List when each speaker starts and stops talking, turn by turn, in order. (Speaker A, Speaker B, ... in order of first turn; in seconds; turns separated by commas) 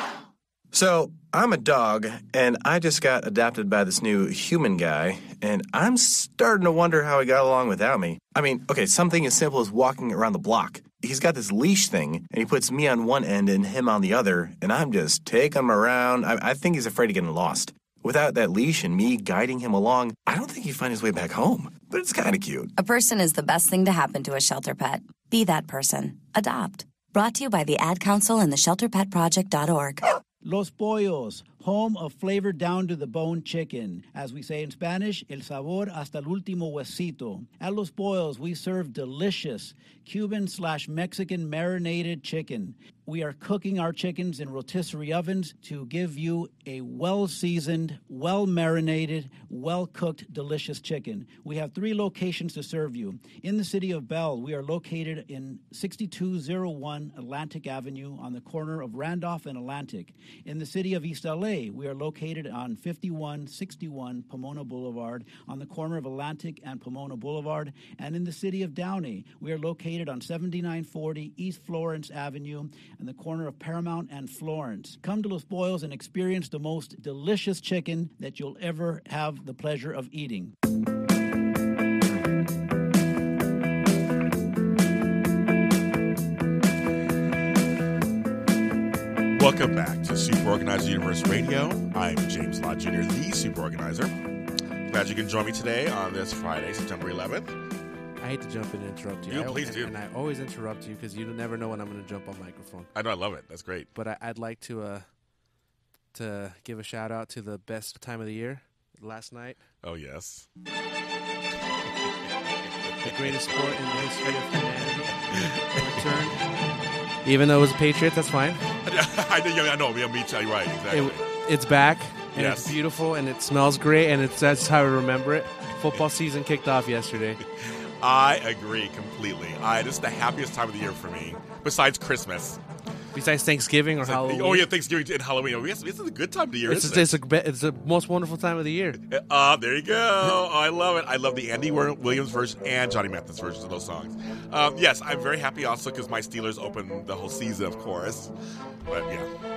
Speaker A: 0.7-22.7, Speaker B: 22.8-30.1, Speaker C: 30.4-80.5, Speaker D: 89.3-94.1, Speaker D: 94.9-97.5, Speaker E: 98.2-102.9, Speaker D: 99.3-99.9, Speaker D: 102.9-103.9, Speaker E: 103.9-105.0, Speaker E: 106.1-109.6, Speaker D: 109.8-110.5, Speaker E: 113.0-116.4, Speaker E: 117.2-118.6, Speaker D: 118.8-121.3, Speaker E: 120.9-127.4, Speaker D: 122.3-122.8, Speaker D: 127.6-132.6, Speaker E: 133.1-134.7, Speaker D: 134.0-137.1, Speaker E: 136.7-139.0, Speaker D: 139.1-148.3, Speaker D: 148.9-149.3